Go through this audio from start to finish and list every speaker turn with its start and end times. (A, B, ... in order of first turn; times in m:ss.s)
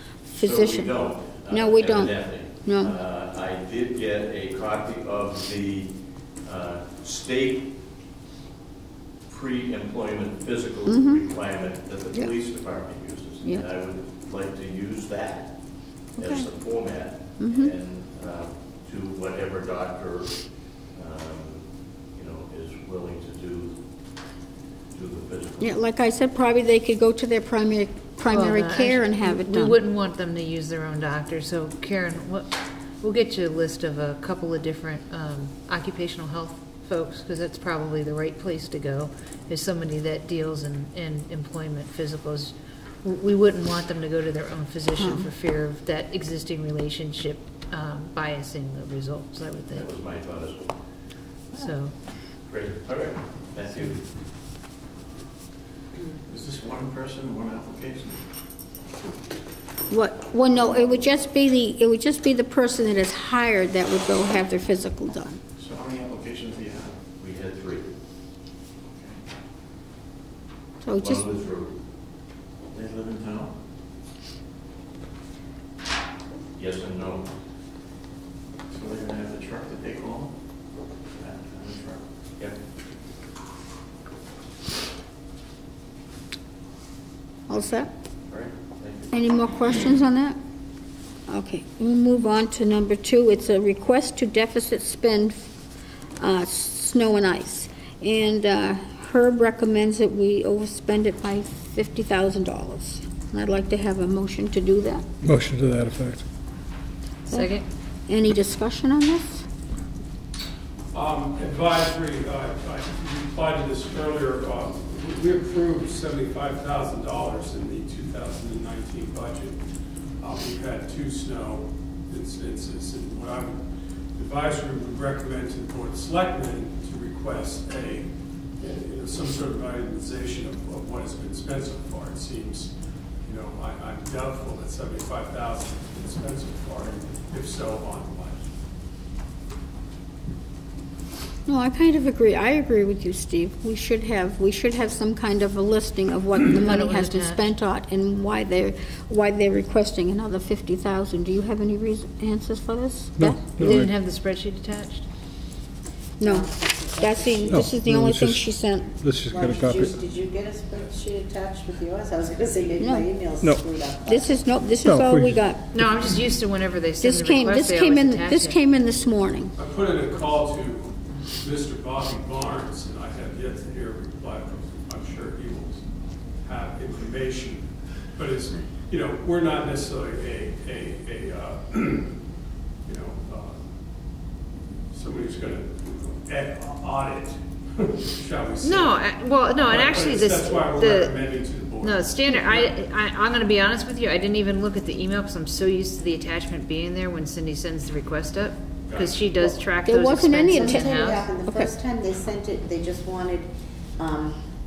0:00.3-0:00.9 A
0:00.3-0:05.9 B
0:01.5-0:02.9 A
0:06.4-0:07.7 B
0:09.3-0:15.5 B
0:10.8-0:11.2 A
0:16.1-0:20.3 B
0:16.2-0:16.5 A
0:17.4-0:17.7 A
0:20.9-0:23.7 B
0:24.9-0:25.8 B
0:25.6-0:29.8 A
0:28.3-0:49.9 C
0:45.0-0:45.3 A
0:49.7-0:50.7 B
0:51.5-0:51.9 C
0:52.5-0:54.0 B
0:56.2-0:58.2 D
0:59.9-1:05.4 A
1:05.6-1:07.0 D
1:07.2-1:07.8 B
1:08.9-1:09.2 D
1:10.8-1:11.2 A
1:11.0-1:11.7 B
1:12.7-1:13.5 D
1:16.5-1:17.2 B
1:18.7-1:20.3 D
1:21.2-1:22.0 D
1:27.5-1:27.9 A
1:28.3-1:29.1 B
1:29.1-1:30.4 A
1:31.3-1:35.5 A
1:36.2-1:45.0 A
1:45.2-1:46.2 E
1:47.3-1:47.6 C
1:48.1-1:49.4 A
1:50.9-1:59.6 F
2:00.2-2:03.6 F
2:04.2-2:08.1 F
2:08.6-2:12.7 F
2:13.2-2:18.5 F
2:21.5-2:33.7 A
2:26.5-2:27.5 C
2:33.2-2:33.9 E
2:33.6-2:35.0 C
2:36.2-2:38.9 A
2:36.2-2:37.7 G
2:37.5-2:40.0 E
2:39.2-2:44.4 G
2:42.8-2:43.0 A
2:44.1-2:45.6 A
2:44.8-2:45.5 E
2:45.7-2:48.6 C
2:47.0-2:49.5 A
2:49.6-2:55.8 F
2:56.4-3:02.1 F
3:02.8-3:03.6 F
3:04.9-3:09.1 F
3:08.6-3:21.3 C
3:09.6-3:12.7 F
3:18.8-3:19.6 F
3:19.8-3:21.7 A
3:20.4-3:24.4 G